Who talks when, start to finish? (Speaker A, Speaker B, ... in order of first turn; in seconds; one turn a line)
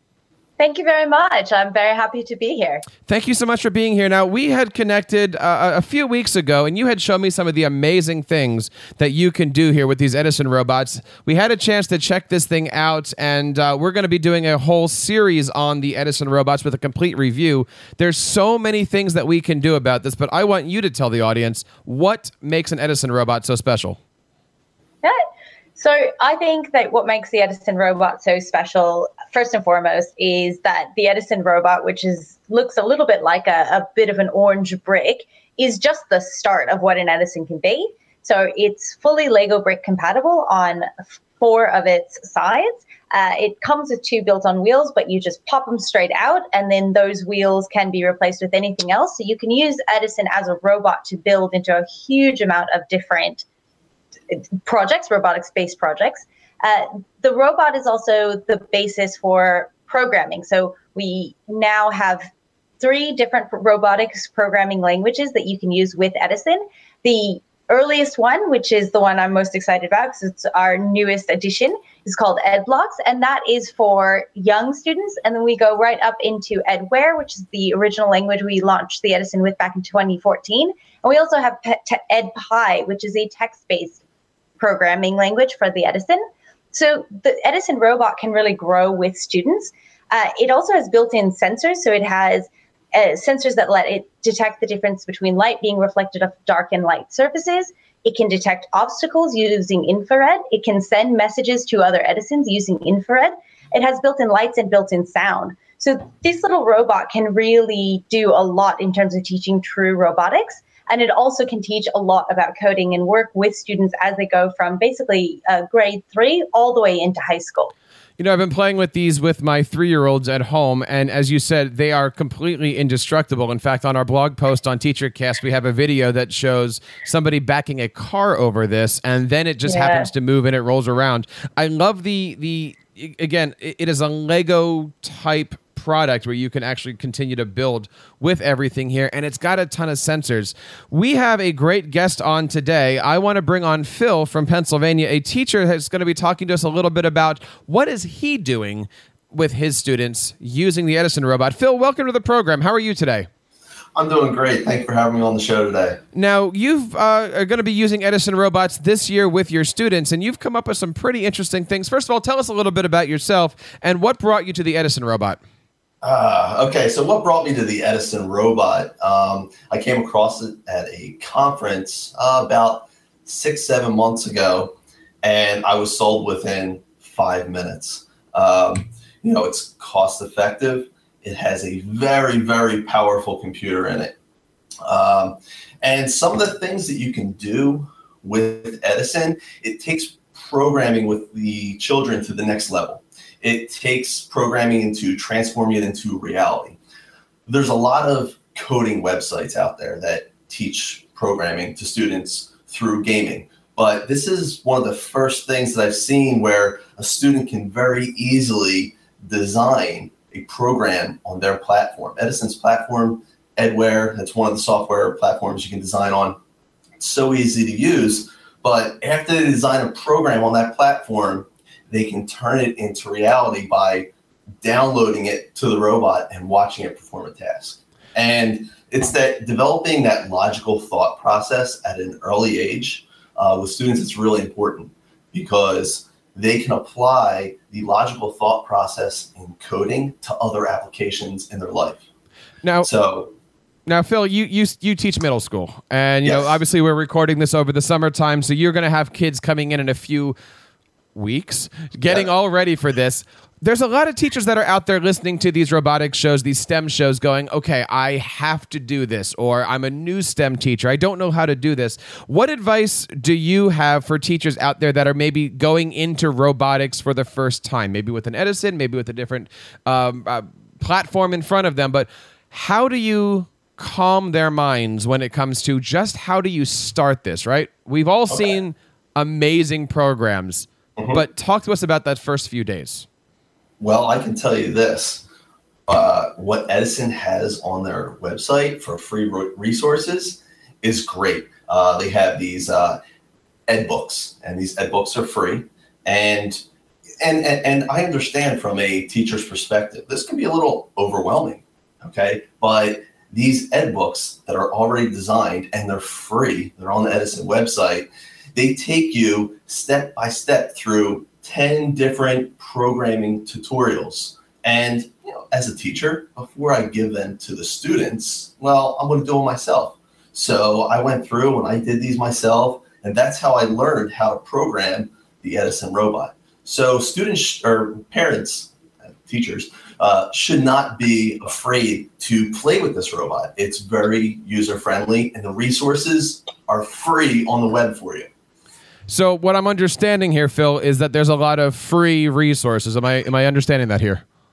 Speaker A: 0.6-2.8
Speaker B: 3.1-24.0
Speaker A: 25.8-53.4
Speaker A: 54.3-62.2
Speaker A: 62.8-84.0
Speaker A: 84.6-86.2
Speaker A: 86.7-117.7
Speaker B: 118.2-153.3
Speaker A: 129.7-130.1
Speaker C: 153.9-156.0
Speaker B: 156.1-165.4
Speaker C: 166.0-184.1
Speaker C: 184.8-196.8
Speaker C: 197.5-216.4
Speaker C: 217.0-224.1
Speaker C: 224.6-242.1
Speaker B: 242.6-242.9
Speaker C: 242.8-243.3
Speaker B: 243.8-250.3
Speaker C: 246.2-246.6
Speaker B: 251.1-283.1
Speaker C: 281.0-281.2
Speaker C: 283.8-285.2
Speaker C: 285.9-293.0
Speaker C: 293.7-296.6
Speaker C: 297.2-338.3
Speaker B: 339.1-344.2